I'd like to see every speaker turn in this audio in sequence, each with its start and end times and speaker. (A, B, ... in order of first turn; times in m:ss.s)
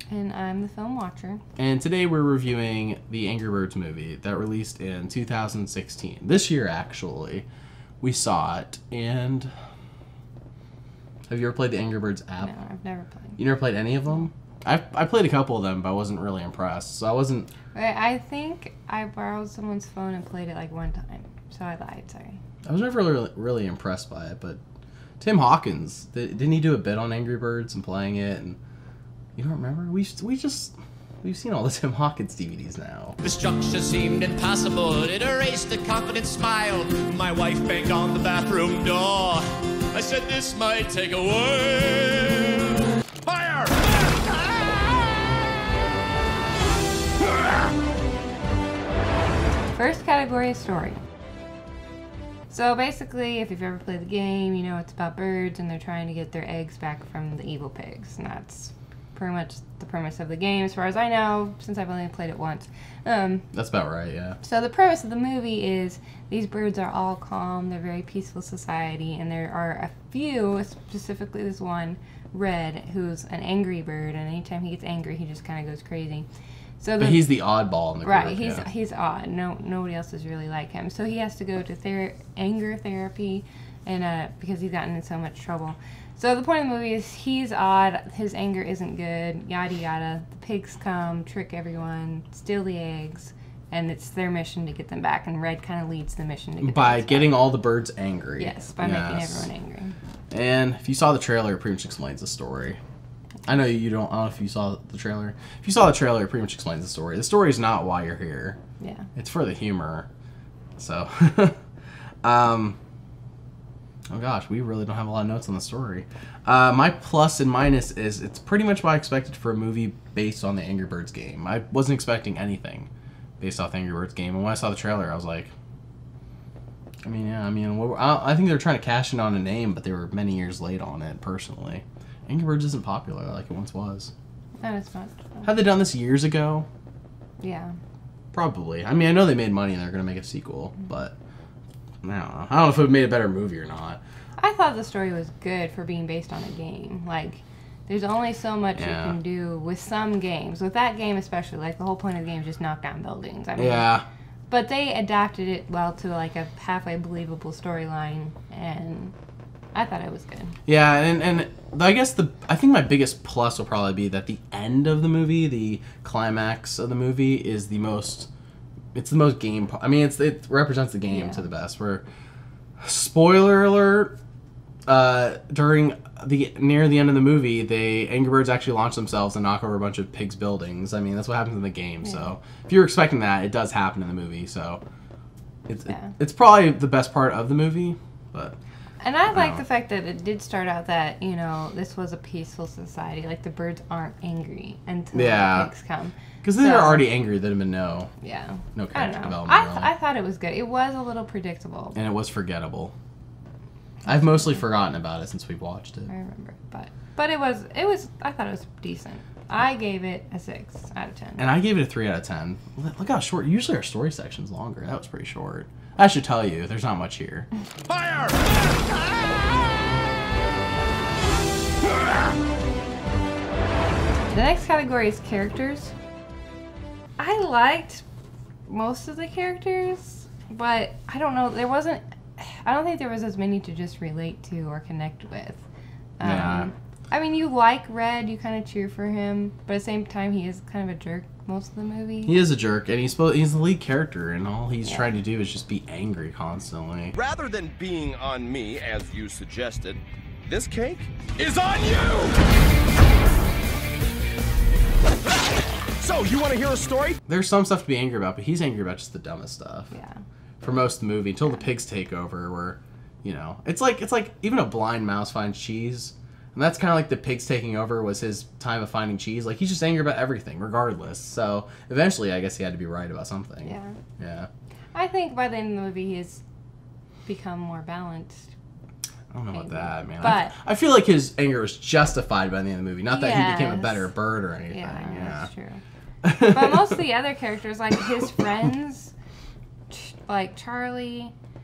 0:00.1-0:01.4 A
0:01.6-0:07.4 B
0:08.0-0:09.5 B
0:11.3-0:12.5 B
0:12.4-0:13.4 A
0:13.4-0:17.5 B
0:17.7-0:22.4 A
0:22.6-0:24.6 B
0:25.2-0:28.6 B
0:29.4-0:33.2 B
0:33.2-0:43.9 C
0:49.7-0:51.0 A
0:52.5-1:03.5 A
1:03.5-1:04.4 B
1:04.4-1:16.3 A
1:16.8-1:17.3 A
1:17.0-1:18.6 B
1:18.0-1:37.4 A
1:36.6-1:39.5 B
1:38.4-1:40.0 A
1:40.3-1:42.8 B
1:43.4-1:48.6 B
1:48.8-1:49.1 A
1:49.2-1:50.1 B
1:50.8-1:51.6 B
1:52.2-1:52.8 B
1:54.1-2:05.5 B
2:07.0-2:14.1 B
2:14.6-2:15.5 A
2:15.4-2:16.7 B
2:17.4-2:17.8 A
2:18.3-2:21.2 B
2:22.0-2:24.0 B
2:24.4-2:33.9 A
2:28.8-2:29.2 B
2:33.6-2:34.0 B
2:34.5-2:39.1 A
2:39.7-2:40.6 A
2:40.6-2:48.3 B
2:48.9-2:52.0 B
2:51.1-2:51.4 A
2:52.8-2:54.2 B
2:54.9-3:04.8 B
3:05.7-3:08.6 B
3:09.0-3:17.0 A
3:09.3-3:09.6 B
3:15.1-3:15.7 B
3:16.4-3:18.1 B
3:18.2-3:22.0 A
3:18.8-3:19.9 B
3:21.9-3:22.9 B
3:24.0-3:26.1 B
3:24.2-3:24.5 A
3:26.1-3:31.5 A
3:31.4-3:37.5 B
3:37.9-3:38.4 C
3:44.3-3:45.9 A
3:47.2-3:48.0 A
3:48.7-3:55.6 A
3:56.2-4:02.4 A
3:56.2-3:56.7 B
4:02.3-4:07.2 B
4:04.8-4:05.2 A
4:07.1-4:12.4 D
4:16.0-4:17.2 D
4:17.3-4:19.9 B
4:19.9-4:20.2 A
4:20.6-4:34.5 B
4:33.6-4:34.0 A
4:34.9-4:36.4 A
4:37.2-4:38.5 A
4:39.3-4:45.5 B
4:39.5-4:40.6 A
4:43.1-4:44.1 A
4:44.7-4:45.8 A
4:46.2-4:47.0 B
4:46.4-4:49.1 A
4:49.9-4:51.3 A